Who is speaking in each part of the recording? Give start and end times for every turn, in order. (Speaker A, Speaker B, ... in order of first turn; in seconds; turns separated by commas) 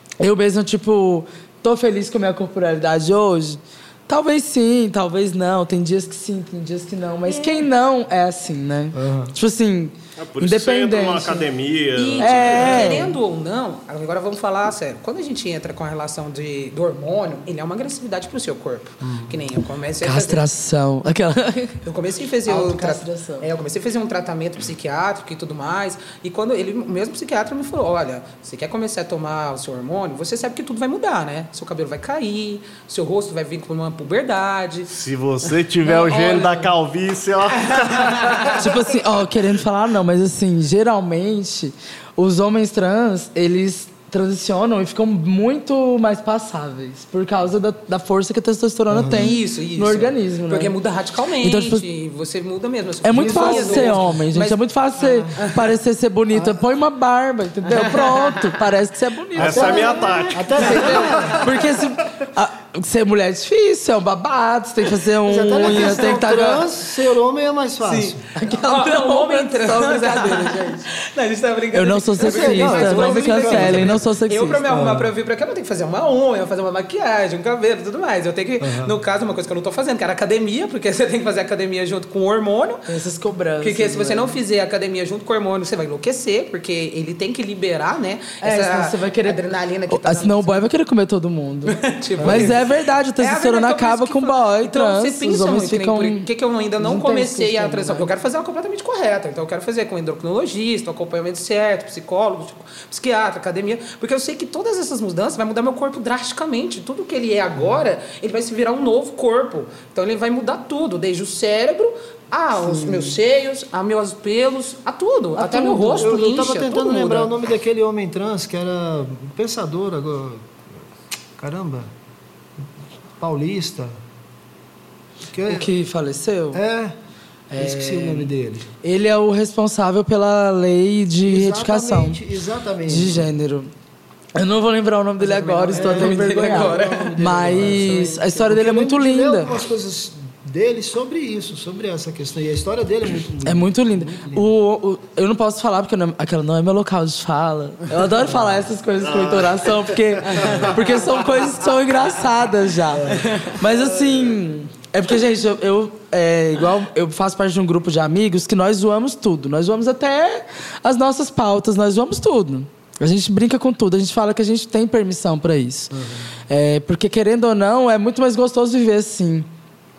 Speaker A: 0.2-11.5, Speaker B: 7.3-7.7, Speaker C: 8.9-9.4, Speaker D: 10.2-13.0, Speaker B: 11.9-20.5, Speaker A: 12.2-13.2, Speaker C: 19.0-19.4, Speaker A: 20.0-21.8, Speaker B: 21.9-34.9, Speaker A: 22.5-23.5, Speaker D: 34.9-38.6, Speaker B: 35.8-36.7, Speaker B: 37.7-38.6, Speaker A: 38.5-50.8, Speaker C: 48.9-49.3, Speaker B: 49.1-54.6, Speaker A: 51.4-51.8, Speaker A: 53.0-60.0, Speaker C: 53.1-54.1, Speaker C: 55.0-55.4, Speaker B: 55.4-55.7, Speaker C: 56.3-56.6, Speaker B: 57.7-58.5, Speaker D: 59.4-61.0, Speaker C: 59.4-61.6, Speaker B: 59.5-61.7, Speaker A: 60.7-66.7, Speaker C: 65.3-68.2, Speaker B: 65.5-66.2, Speaker B: 67.8-82.9, Speaker A: 68.3-70.9, Speaker A: 71.7-74.6, Speaker C: 72.2-74.0, Speaker C: 74.7-75.1, Speaker C: 78.6-78.9, Speaker A: 82.9-84.4, Speaker B: 83.6-90.7, Speaker A: 88.4-96.3, Speaker B: 91.7-117.3, Speaker C: 92.2-92.5, Speaker A: 96.8-98.1, Speaker C: 112.7-113.1, Speaker A: 115.4-115.9, Speaker C: 115.4-120.5, Speaker C: 121.4-121.9, Speaker C: 123.2-124.0, Speaker C: 125.3-125.7, Speaker A: 125.5-126.6, Speaker C: 126.5-127.0, Speaker A: 127.5-128.3, Speaker C: 127.6-128.7, Speaker A: 128.8-132.2, Speaker C: 131.2-133.3, Speaker A: 132.8-133.7, Speaker A: 134.3-139.6, Speaker B: 135.2-138.2, Speaker C: 135.7-144.4, Speaker A: 143.4-165.9, Speaker D: 149.0-150.8, Speaker C: 150.4-150.7, Speaker C: 152.9-153.6, Speaker C: 165.9-166.3, Speaker A: 166.5-169.5